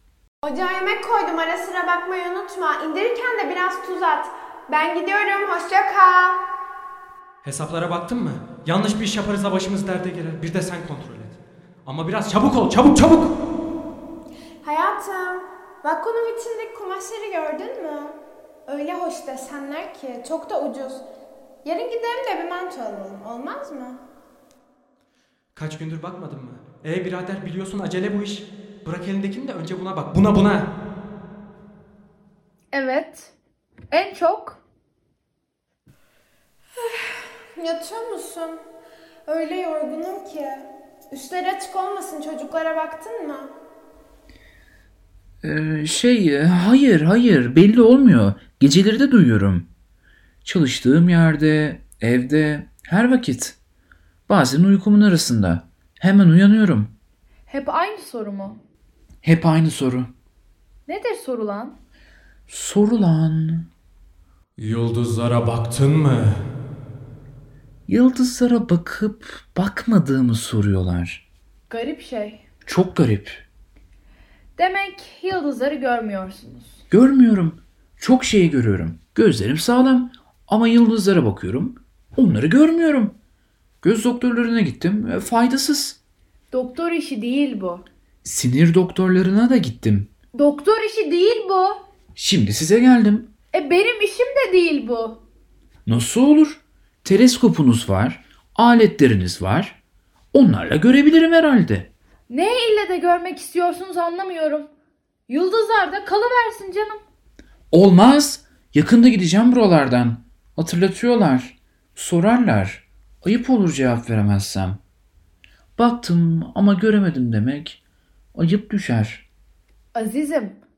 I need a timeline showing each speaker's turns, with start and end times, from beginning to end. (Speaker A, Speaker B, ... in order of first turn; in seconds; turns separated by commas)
Speaker A: 0.4-6.4, Speaker B: 7.4-13.4, Speaker A: 14.6-21.1, Speaker A: 21.6-24.0, Speaker B: 25.6-30.7, Speaker C: 32.7-33.3, Speaker C: 33.9-34.6, Speaker A: 37.6-38.6, Speaker A: 39.3-43.5, Speaker D: 45.4-49.7, Speaker D: 50.4-53.6, Speaker D: 54.3-56.9, Speaker C: 57.5-58.6, Speaker D: 59.2-60.1, Speaker C: 60.9-61.8, Speaker D: 62.5-63.7, Speaker B: 64.6-66.4, Speaker D: 67.9-71.2, Speaker C: 71.7-72.4, Speaker D: 72.7-73.4, Speaker C: 74.6-76.8, Speaker D: 76.9-83.2, Speaker D: 83.8-86.0, Speaker C: 86.5-87.9, Speaker D: 88.2-90.1, Speaker C: 90.3-91.8, Speaker D: 92.2-93.3, Speaker C: 93.5-95.2, Speaker D: 95.9-99.8, Speaker D: 100.3-101.9, Speaker C: 102.3-104.7, Speaker C: 105.3-107.0, Speaker D: 107.7-114.8, Speaker D: 115.8-117.8, Speaker D: 118.3-119.3, Speaker C: 120.0-120.6